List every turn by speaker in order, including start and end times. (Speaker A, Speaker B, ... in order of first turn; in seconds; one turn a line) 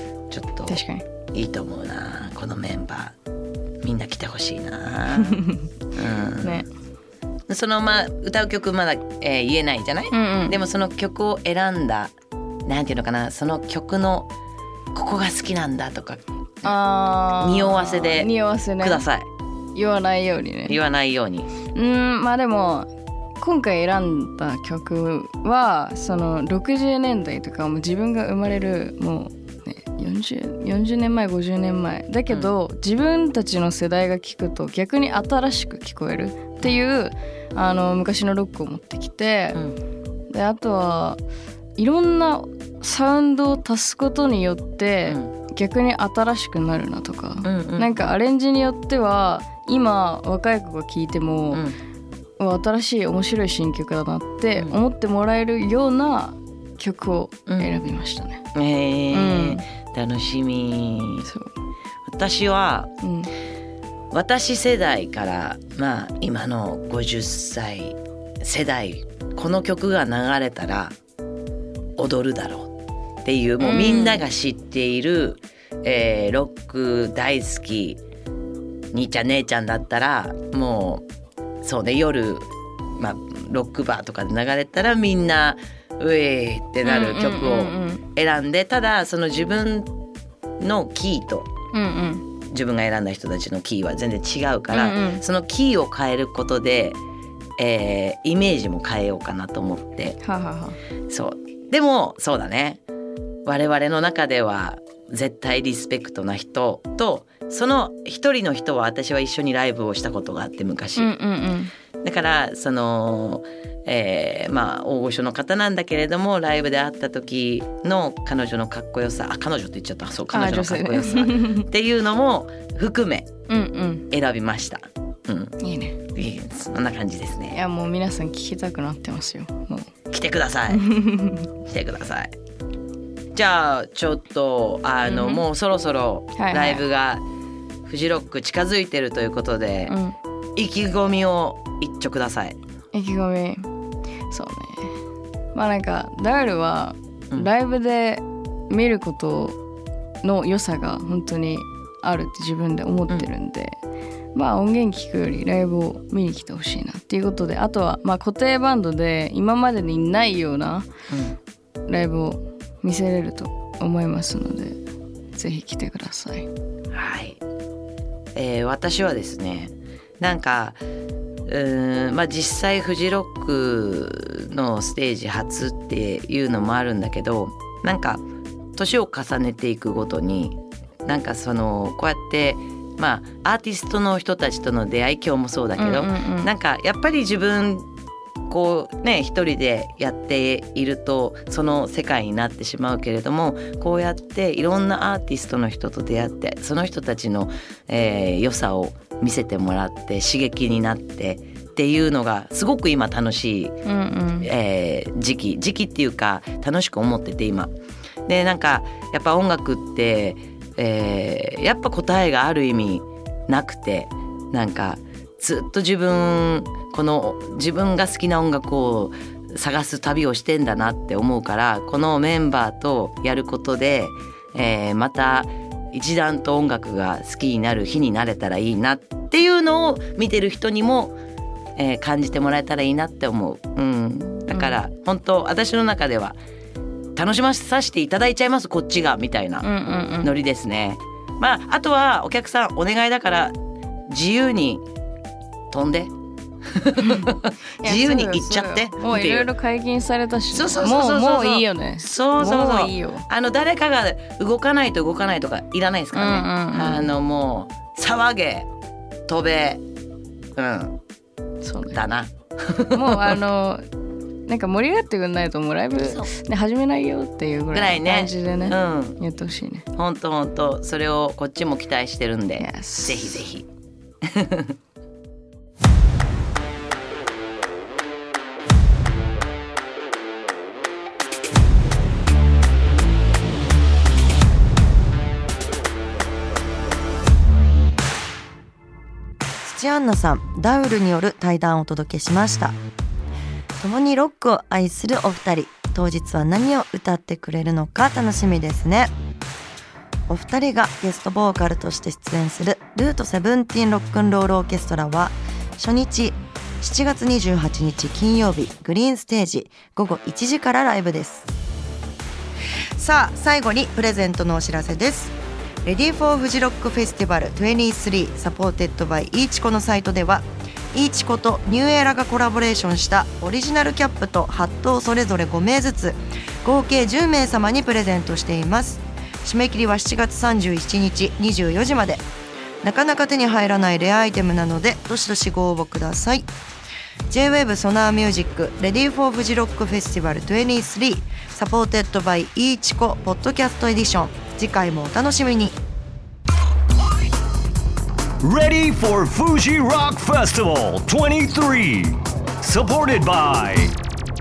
Speaker A: 0.3-0.8
Speaker B: 0.7-1.0
Speaker A: 1.3-3.1
Speaker A: 3.8-5.4
Speaker B: 5.3-5.6
Speaker A: 5.9-6.7
Speaker A: 7.5-12.1
Speaker B: 10.1-10.6
Speaker A: 12.7-14.3
Speaker A: 14.9-19.3
Speaker B: 16.6-19.0
Speaker B: 19.7-20.8
Speaker A: 20.7-21.5
Speaker B: 21.7-39.6
Speaker B: 40.3-41.2
Speaker B: 41.8-51.6
Speaker A: 45.1-45.3
Speaker A: 47.4-47.9
Speaker A: 51.5-51.8
Speaker B: 52.4-58.4
Speaker A: 57.5-57.7
Speaker A: 58.5-61.3
Speaker B: 59.1-59.6
Speaker B: 61.2-61.5
Speaker A: 62.1-62.9
Speaker B: 63.0-63.3
Speaker A: 64.1-71.0
Speaker A: 72.0-72.7
Speaker A: 73.2-78.0
Speaker B: 73.6-74.2
Speaker A: 78.9-81.0
Speaker A: 81.6-89.9
Speaker B: 86.8-88.0
Speaker A: 90.6-91.5
Speaker B: 91.7-92.2
Speaker A: 92.5-97.0
Speaker B: 94.7-95.2
Speaker A: 97.6-100.2
Speaker B: 100.2-100.8
Speaker A: 101.1-102.8
Speaker A: 103.5-111.1
Speaker B: 111.0-111.7
Speaker A: 112.0-123.3
Speaker B: 120.3-121.7
Speaker B: 123.5-124.0
Speaker A: 124.1-125.5
Speaker B: 125.6-126.0
Speaker A: 126.1-127.6
Speaker B: 127.5-129.9
Speaker A: 130.1-130.8
Speaker B: 130.7-131.5
Speaker A: 131.7-132.3
Speaker A: 133.3-137.2
Speaker B: 135.1-135.4
Speaker B: 136.3-136.8
Speaker A: 137.8-139.9
Speaker B: 139.9-140.2
Speaker A: 140.6-142.6
Speaker B: 142.9-143.7
Speaker B: 144.3-144.9
Speaker B: 145.5-149.6
Speaker B: 150.2-153.8
Speaker B: 154.3-160.9
Speaker A: 161.1-161.4
Speaker B: 161.9-164.8
Speaker B: 165.3-166.5
Speaker A: 166.9-167.4
Speaker A: 168.3-170.8
Speaker A: 171.5-178.2
Speaker A: 178.8-187.9
Speaker B: 185.8-186.5
Speaker A: 188.5-203.8
Speaker B: 203.8-204.5
Speaker A: 204.4-207.7
Speaker A: 208.3-231.2
Speaker A: 231.8-236.4
Speaker B: 234.5-234.8
Speaker A: 237.2-239.7
Speaker B: 239.6-240.3
Speaker A: 240.2-243.6
Speaker A: 244.1-244.8
Speaker A: 245.7-246.1
Speaker A: 246.8-249.5
Speaker B: 247.0-247.3
Speaker B: 247.8-253.2
Speaker A: 250.5-258.7
Speaker B: 256.1-257.1
Speaker A: 259.3-259.8
Speaker A: 260.6-261.0
Speaker B: 261.6-262.0
Speaker A: 261.9-263.4
Speaker B: 262.9-263.8
Speaker B: 264.4-269.8
Speaker A: 266.0-266.3
Speaker A: 267.7-269.2
Speaker A: 269.9-273.6
Speaker B: 272.6-273.4
Speaker A: 274.3-274.7
Speaker C: 289.6-292.8
Speaker C: 293.8-299.1
Speaker C: 300.3-311.5
Speaker C: 313.0-315.3
Speaker C: 315.8-332.2
Speaker C: 332.8-336.5
Speaker C: 337.3-345.7
Speaker D: 348.4-353.9